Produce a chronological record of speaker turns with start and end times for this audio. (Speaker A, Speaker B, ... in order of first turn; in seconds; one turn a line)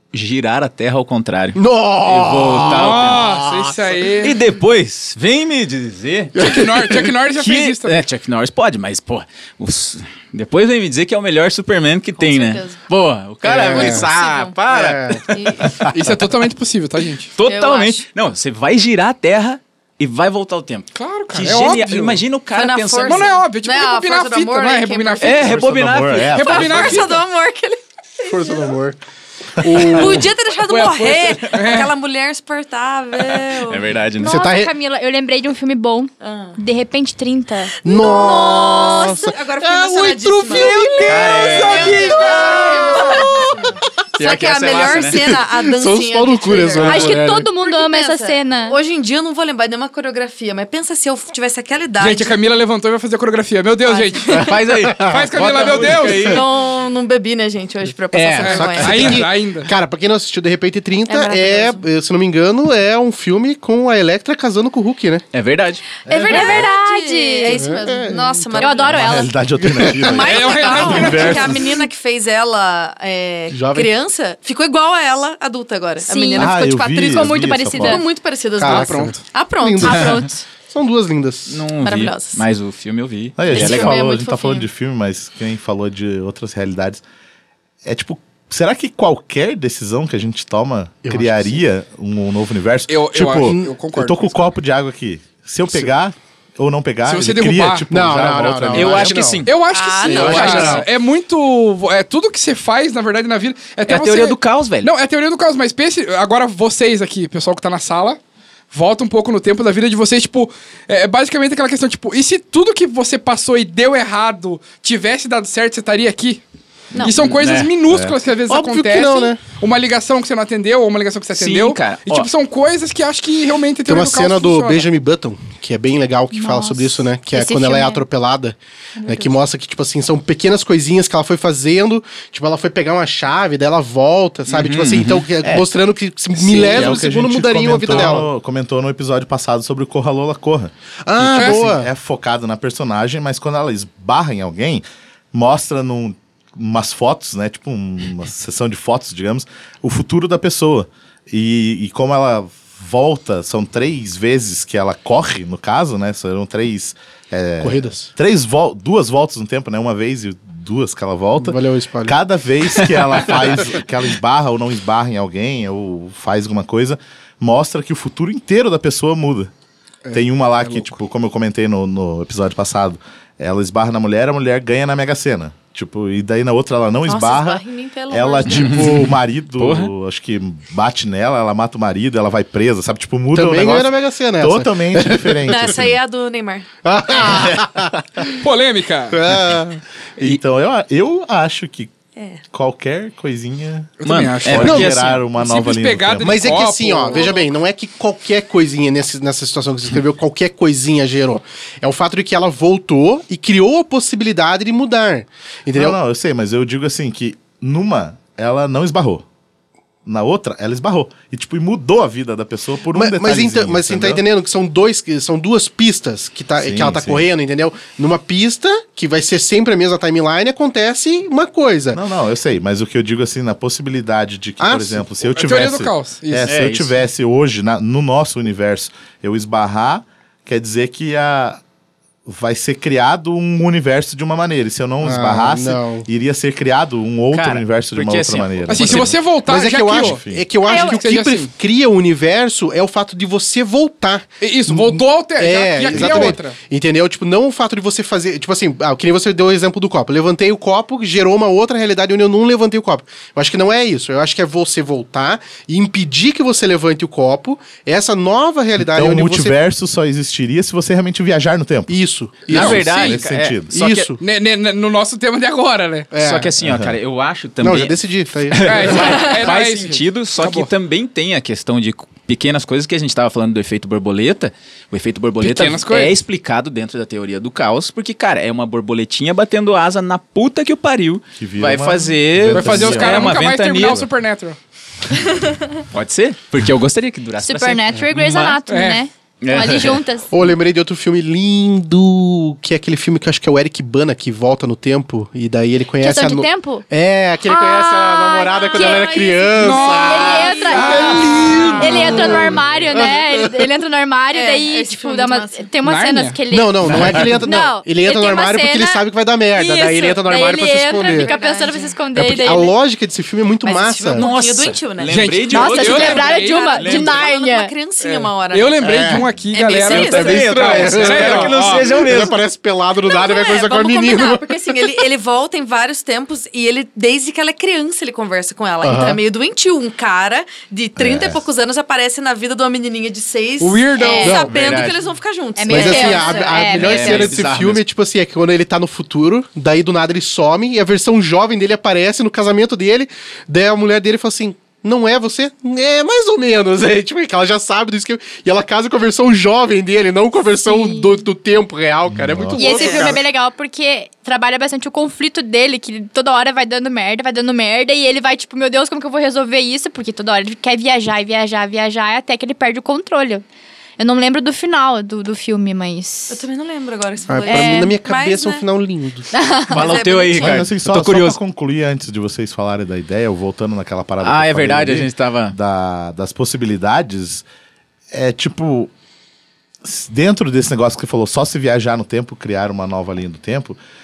Speaker A: 0.1-3.4
Speaker B: 1.6-4.1
Speaker C: 2.6-4.4
Speaker A: 4.2-6.5
Speaker B: 6.4-7.0
Speaker C: 6.4-8.0
Speaker A: 7.3-15.9
Speaker D: 12.1-12.8
Speaker B: 13.4-14.1
Speaker D: 13.5-14.6
Speaker B: 14.7-15.3
Speaker D: 15.3-15.9
Speaker C: 15.9-17.3
Speaker A: 17.4-23.3
Speaker D: 17.4-18.1
Speaker C: 20.9-22.2
Speaker D: 22.5-25.6
Speaker C: 23.0-25.7
Speaker A: 25.2-27.0
Speaker E: 25.4-27.0
Speaker D: 26.2-28.7
Speaker C: 26.4-27.2
Speaker B: 28.2-29.0
Speaker B: 29.6-30.3
Speaker D: 29.7-33.9
Speaker A: 30.0-31.7
Speaker C: 31.5-31.9
Speaker A: 33.1-34.5
Speaker F: 34.2-37.7
Speaker B: 34.2-34.7
Speaker D: 36.2-36.5
Speaker B: 37.8-42.5
Speaker D: 37.8-52.4
Speaker A: 41.0-43.4
Speaker F: 42.4-43.0
Speaker B: 43.1-43.4
Speaker A: 44.2-45.4
Speaker B: 44.9-47.5
Speaker F: 46.8-48.8
Speaker C: 52.0-56.4
Speaker D: 53.8-54.3
Speaker A: 54.3-56.5
Speaker B: 54.6-55.4
Speaker D: 55.4-59.2
Speaker A: 58.1-59.2
Speaker C: 58.4-59.7
Speaker B: 58.5-65.2
Speaker D: 61.0-61.8
Speaker A: 65.3-65.8
Speaker D: 66.0-69.2
Speaker E: 66.0-66.7
Speaker F: 66.3-67.9
Speaker B: 67.5-68.9
Speaker F: 68.6-69.3
Speaker E: 68.8-71.7
Speaker B: 69.6-71.0
Speaker D: 70.0-80.3
Speaker C: 70.2-71.5
Speaker B: 73.5-73.9
Speaker F: 76.0-78.0
Speaker E: 76.3-78.0
Speaker B: 78.6-81.6
Speaker C: 78.6-79.2
Speaker F: 79.6-80.4
Speaker A: 81.5-84.0
Speaker D: 81.8-82.4
Speaker E: 83.4-87.0
Speaker D: 83.5-84.7
Speaker E: 87.8-99.3
Speaker B: 91.0-91.6
Speaker C: 92.9-94.4
Speaker B: 93.4-93.7
Speaker C: 97.0-97.9
Speaker B: 97.9-100.8
Speaker A: 98.7-100.8
Speaker C: 99.4-108.2
Speaker D: 99.7-100.8
Speaker A: 103.9-104.9
Speaker C: 108.7-116.4
Speaker D: 116.9-117.4
Speaker C: 117.0-124.9
Speaker A: 117.1-117.7
Speaker B: 118.5-119.5
Speaker A: 121.3-122.3
Speaker B: 123.8-138.3
Speaker F: 126.3-128.0
Speaker F: 129.0-129.3
Speaker A: 134.5-135.3
Speaker E: 135.4-135.7
Speaker E: 136.3-169.5
Speaker B: 141.1-141.9
Speaker C: 141.3-141.6
Speaker B: 157.6-158.1
Speaker B: 161.4-162.2
Speaker C: 170.1-170.9
Speaker E: 170.1-186.0
Speaker D: 177.0-178.8
Speaker A: 178.4-179.9
Speaker B: 183.3-185.9
Speaker D: 185.4-186.6
Speaker B: 186.8-188.4
Speaker C: 188.4-189.2
Speaker B: 189.1-189.8
Speaker E: 190.2-191.9
Speaker D: 192.2-192.4
Speaker E: 192.5-196.7
Speaker C: 194.0-197.4
Speaker A: 194.0-195.2
Speaker B: 196.2-206.0
Speaker E: 205.7-209.2
Speaker E: 210.1-214.2
Speaker B: 212.9-222.0
Speaker E: 216.6-217.3
Speaker E: 221.9-231.6
Speaker B: 224.6-225.1
Speaker C: 225.3-226.5
Speaker A: 226.4-227.0
Speaker E: 232.2-239.1
Speaker B: 235.0-236.1
Speaker A: 237.3-239.2
Speaker C: 238.7-241.5
Speaker B: 239.4-259.6
Speaker E: 239.9-240.4
Speaker F: 240.6-241.0
Speaker C: 244.4-246.6
Speaker E: 245.9-246.4
Speaker E: 258.8-261.9
Speaker B: 261.9-263.2
Speaker A: 262.5-264.1
Speaker C: 262.5-263.2
Speaker E: 262.5-263.7
Speaker B: 263.7-264.2
Speaker C: 264.2-266.1
Speaker B: 266.1-266.5
Speaker A: 266.1-284.0
Speaker E: 266.6-266.9
Speaker B: 267.6-269.2
Speaker C: 268.6-270.7
Speaker C: 275.4-276.1
Speaker E: 281.4-284.1
Speaker C: 282.5-284.6
Speaker A: 285.9-288.6
Speaker F: 287.4-290.3
Speaker C: 288.7-289.0
Speaker A: 289.4-290.0
Speaker B: 290.3-303.2
Speaker F: 296.0-296.8
Speaker F: 297.4-309.0
Speaker D: 298.6-299.3
Speaker C: 299.6-302.4
Speaker D: 300.2-301.3
Speaker D: 304.3-305.7
Speaker C: 305.8-306.4
Speaker B: 306.5-311.3
Speaker F: 309.5-312.7
Speaker D: 310.3-312.7
Speaker B: 312.1-314.2
Speaker D: 313.6-320.6
Speaker A: 314.1-317.2
Speaker C: 315.1-316.8
Speaker F: 315.5-317.7
Speaker C: 318.0-321.9
Speaker B: 318.8-319.3
Speaker A: 319.8-322.4
Speaker B: 320.1-324.9
Speaker D: 323.0-336.6
Speaker B: 328.8-329.2
Speaker E: 331.0-331.4
Speaker C: 333.6-334.4
Speaker F: 334.0-334.4
Speaker B: 334.2-334.8
Speaker A: 334.4-335.0
Speaker F: 335.6-337.3
Speaker B: 335.7-353.2
Speaker A: 336.7-337.8
Speaker F: 350.7-351.2
Speaker E: 352.1-352.8
Speaker F: 352.6-363.4
Speaker D: 352.7-353.1
Speaker F: 364.0-366.4
Speaker D: 366.3-368.7
Speaker B: 367.3-369.3
Speaker F: 367.4-367.9
Speaker F: 369.3-370.0
Speaker A: 369.7-371.4
Speaker D: 369.7-370.7
Speaker E: 370.3-377.4
Speaker A: 374.2-375.6
Speaker E: 378.1-378.9
Speaker E: 379.8-383.8